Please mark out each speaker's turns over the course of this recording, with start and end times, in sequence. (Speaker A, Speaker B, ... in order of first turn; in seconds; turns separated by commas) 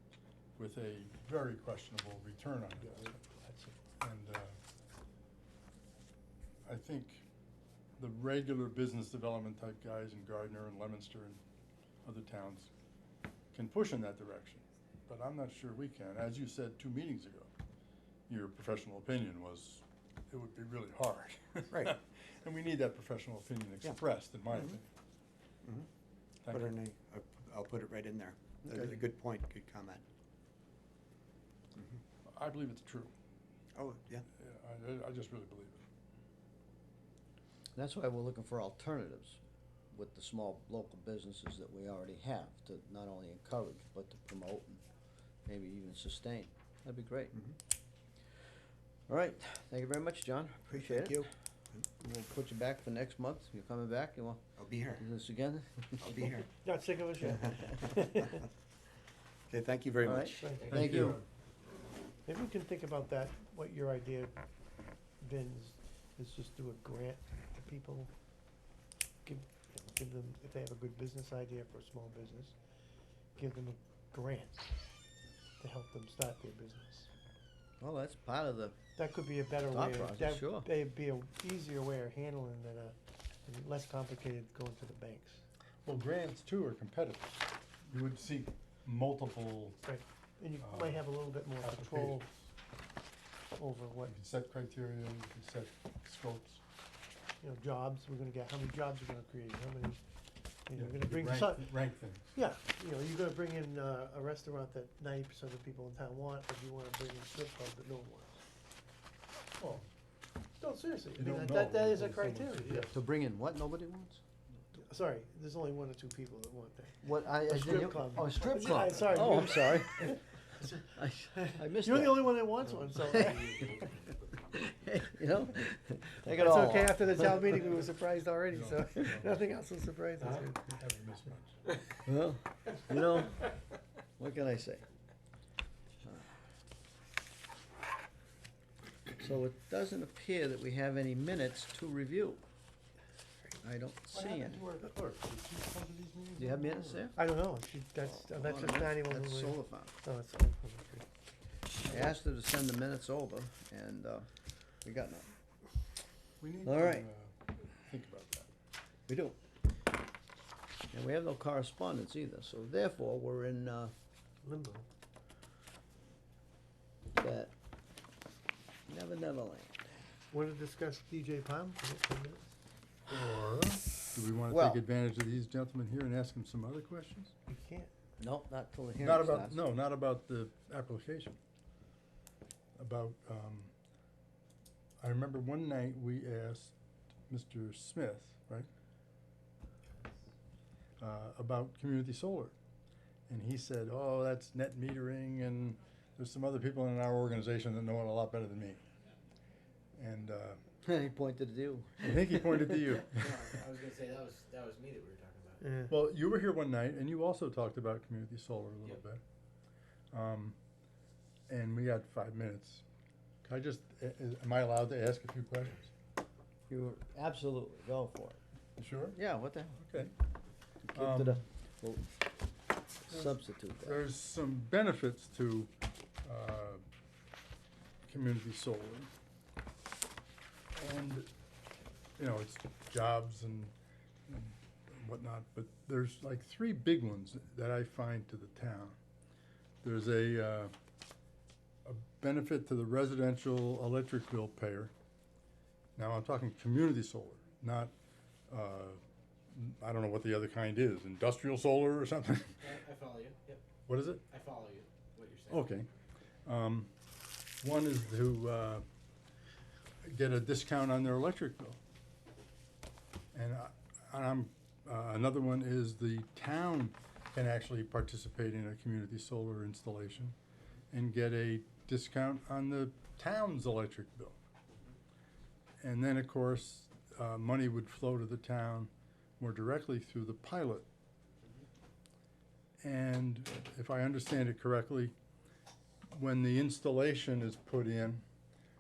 Speaker A: 0.6-3.1, Speaker B: 2.8-3.8, Speaker A: 4.0-4.6, Speaker A: 6.7-7.3, Speaker A: 8.0-11.4, Speaker A: 12.0-12.7, Speaker A: 13.5-17.5, Speaker A: 18.3-24.9, Speaker C: 24.5-24.8, Speaker A: 26.5-26.7, Speaker C: 26.5-30.0, Speaker C: 31.8-32.0, Speaker A: 32.3-33.1, Speaker C: 33.8-34.3, Speaker A: 34.4-35.9, Speaker D: 37.8-39.4, Speaker D: 39.9-44.8, Speaker D: 45.5-47.3, Speaker D: 49.1-51.2, Speaker C: 50.7-51.9, Speaker D: 52.0-56.3, Speaker C: 54.6-55.0, Speaker C: 56.0-56.5, Speaker B: 56.6-58.5, Speaker C: 57.2-57.8, Speaker C: 59.5-61.1, Speaker D: 60.0-61.2, Speaker B: 60.4-60.8, Speaker A: 60.7-61.2, Speaker B: 62.3-64.4, Speaker B: 65.2-68.1, Speaker B: 69.2-72.5, Speaker B: 73.4-74.7, Speaker B: 75.6-77.1, Speaker D: 77.8-78.8, Speaker B: 79.0-83.0, Speaker D: 79.7-80.7, Speaker B: 83.5-85.4, Speaker A: 85.8-89.8, Speaker B: 89.8-92.3, Speaker A: 90.6-91.1, Speaker A: 91.6-92.5, Speaker B: 93.6-94.1, Speaker A: 94.1-96.6, Speaker B: 97.4-100.0, Speaker B: 100.7-101.8, Speaker A: 100.7-102.3, Speaker B: 102.3-108.4, Speaker B: 110.6-112.9, Speaker A: 111.2-113.0, Speaker D: 112.9-114.2, Speaker B: 114.7-120.8, Speaker D: 117.0-123.9, Speaker B: 121.3-123.7, Speaker E: 123.6-123.9, Speaker D: 124.5-127.1, Speaker B: 126.3-130.8, Speaker A: 128.5-129.5, Speaker A: 130.3-132.0, Speaker D: 132.1-133.5, Speaker D: 134.2-134.8, Speaker D: 139.2-142.4, Speaker D: 143.6-144.6, Speaker A: 144.1-147.1, Speaker D: 146.4-147.2, Speaker B: 147.1-151.1, Speaker D: 148.1-149.9, Speaker D: 151.9-154.3, Speaker D: 154.8-155.3, Speaker A: 156.4-158.5, Speaker D: 156.6-157.1, Speaker D: 159.1-159.4, Speaker D: 160.9-163.9, Speaker B: 164.4-164.9, Speaker D: 167.1-167.5, Speaker D: 168.9-169.9, Speaker B: 170.3-172.5, Speaker A: 173.1-177.3, Speaker D: 174.4-174.8, Speaker B: 177.5-177.9, Speaker D: 178.2-179.6, Speaker A: 179.0-181.4, Speaker A: 182.8-183.7, Speaker A: 185.0-186.7, Speaker A: 187.3-188.7, Speaker A: 191.0-192.6, Speaker A: 193.3-198.8, Speaker A: 199.9-200.6, Speaker D: 200.8-202.8, Speaker A: 202.0-203.3, Speaker E: 203.1-205.6, Speaker B: 205.6-205.9, Speaker A: 205.9-209.2, Speaker A: 210.1-210.6, Speaker A: 211.5-212.8, Speaker A: 213.4-215.9, Speaker D: 216.7-218.4, Speaker A: 218.8-219.2, Speaker D: 219.1-219.8, Speaker A: 219.8-220.1, Speaker D: 220.9-222.1, Speaker A: 220.9-221.4, Speaker D: 223.1-224.0, Speaker A: 223.1-225.7, Speaker A: 226.2-226.8, Speaker A: 228.1-229.1, Speaker A: 230.8-231.3, Speaker A: 232.2-233.7, Speaker A: 234.3-239.0, Speaker A: 239.8-240.7, Speaker A: 241.8-244.9, Speaker A: 246.0-247.9, Speaker A: 248.5-249.0, Speaker A: 249.5-252.6, Speaker E: 252.6-253.6, Speaker A: 253.9-254.2, Speaker E: 254.3-255.7, Speaker A: 255.5-255.9, Speaker A: 256.4-256.9, Speaker A: 257.6-258.9, Speaker A: 260.0-261.8, Speaker A: 263.3-270.4, Speaker A: 270.9-274.4, Speaker A: 275.8-280.9, Speaker A: 282.8-285.1, Speaker A: 286.1-288.2